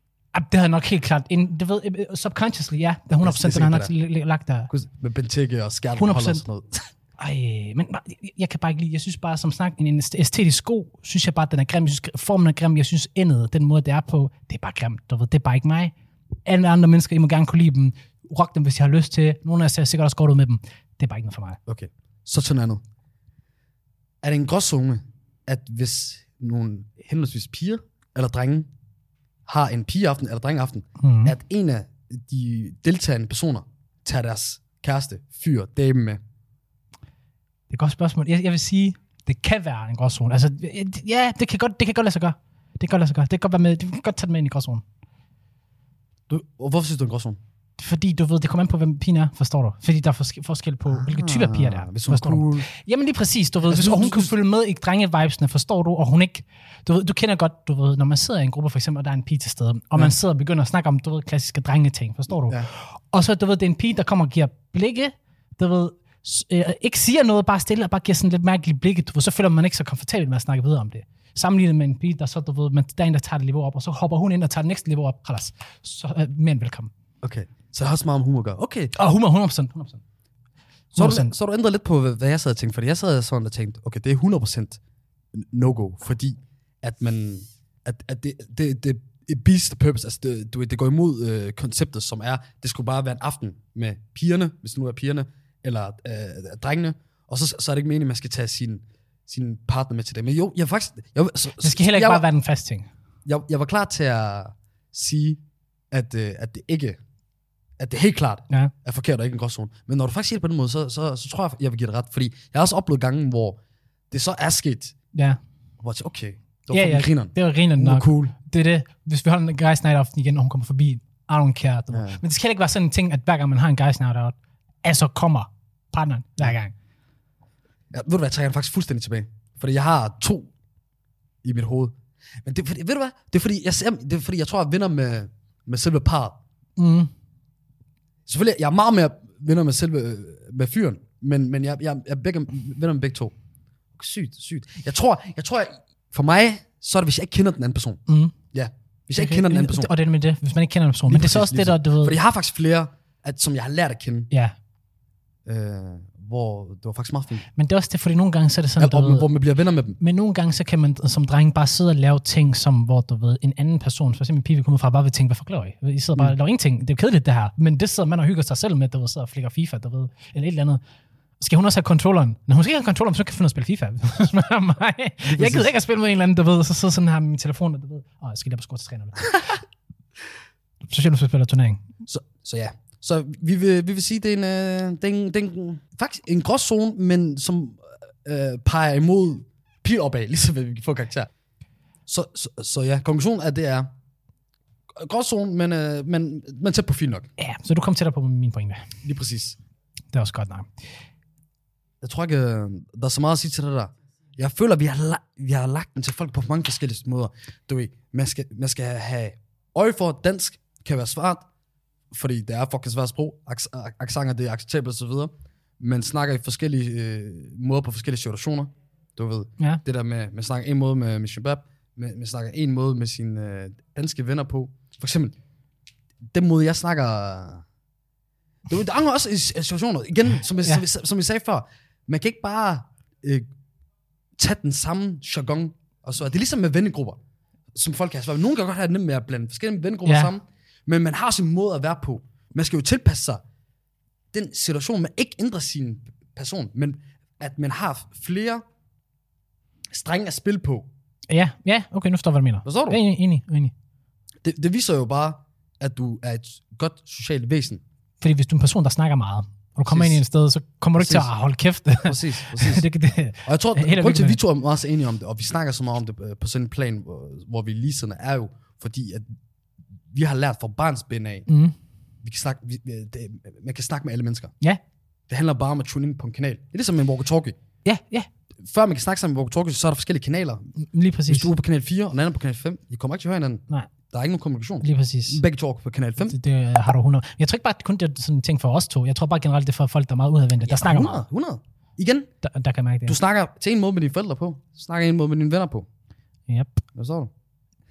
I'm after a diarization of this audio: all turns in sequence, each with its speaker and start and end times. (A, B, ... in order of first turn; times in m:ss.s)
0:00.3-0:04.7 A
0:03.2-0:03.9 B
0:04.7-0:06.9 B
0:06.0-0:06.4 A
0:07.2-0:15.9 A
0:16.4-0:21.6 A
0:21.7-0:22.8 B
0:24.2-0:28.7 B
0:29.5-0:36.2 B
0:31.0-0:31.4 A
0:37.7-0:44.8 A
0:46.3-0:47.4 B
0:47.8-1:16.9 A
0:50.9-0:52.7 B
0:53.6-0:54.3 B
1:17.2-1:18.9 B
1:19.0-1:20.0 A
1:20.9-1:21.3 A
1:21.0-1:24.8 B
1:25.3-1:42.2 B
1:41.6-1:42.9 A
1:43.3-1:45.4 B
1:45.9-1:47.0 B
1:47.8-1:53.6 B
1:54.1-1:55.0 B
1:55.8-1:58.3 B
1:56.7-2:06.7 A
2:01.9-2:02.2 B
2:07.9-2:10.5 B
2:11.4-2:16.4 B
2:16.8-2:17.1 A
2:18.3-2:23.3 B
2:23.9-2:28.0 B
2:28.1-2:28.4 A
2:28.5-2:29.9 B
2:29.1-2:32.2 A
2:31.1-2:34.3 B
2:34.3-2:34.6 A
2:35.5-2:37.5 B
2:37.6-2:39.3 A
2:38.8-2:40.0 B
2:40.0-2:50.8 A
2:51.4-2:59.6 A
2:55.2-2:55.7 B
3:00.9-3:01.8 A
3:02.1-3:11.3 B
3:12.1-3:13.9 B
3:15.0-3:17.3 B
3:17.4-3:18.9 A
3:19.0-3:19.6 B
3:20.1-3:20.7 A
3:22.0-3:31.5 B
3:32.1-3:45.4 B
3:46.3-3:47.6 B
3:48.7-3:53.5 B
3:54.4-3:57.2 B
3:57.7-4:03.4 B
4:00.1-4:00.3 A
4:04.3-4:08.6 B
4:09.9-4:10.9 B
4:11.3-4:13.7 A
4:12.6-4:13.0 B
4:14.4-4:17.8 B
4:18.2-4:24.4 A
4:19.9-4:20.2 B
4:21.0-4:21.3 B
4:22.0-4:22.9 B
4:23.4-4:29.4 B
4:30.1-4:31.5 B
4:31.5-4:31.7 A
4:32.2-4:34.5 B
4:35.3-4:37.6 B
4:37.8-4:38.3 A
4:38.6-4:40.7 B
4:40.9-4:41.5 A
4:41.3-4:46.4 B
4:44.8-4:45.4 A
4:46.2-4:51.2 A
4:50.6-4:52.3 B
4:52.4-4:53.2 A
4:53.1-4:55.9 B
4:56.5-4:56.8 A
4:57.0-4:57.3 B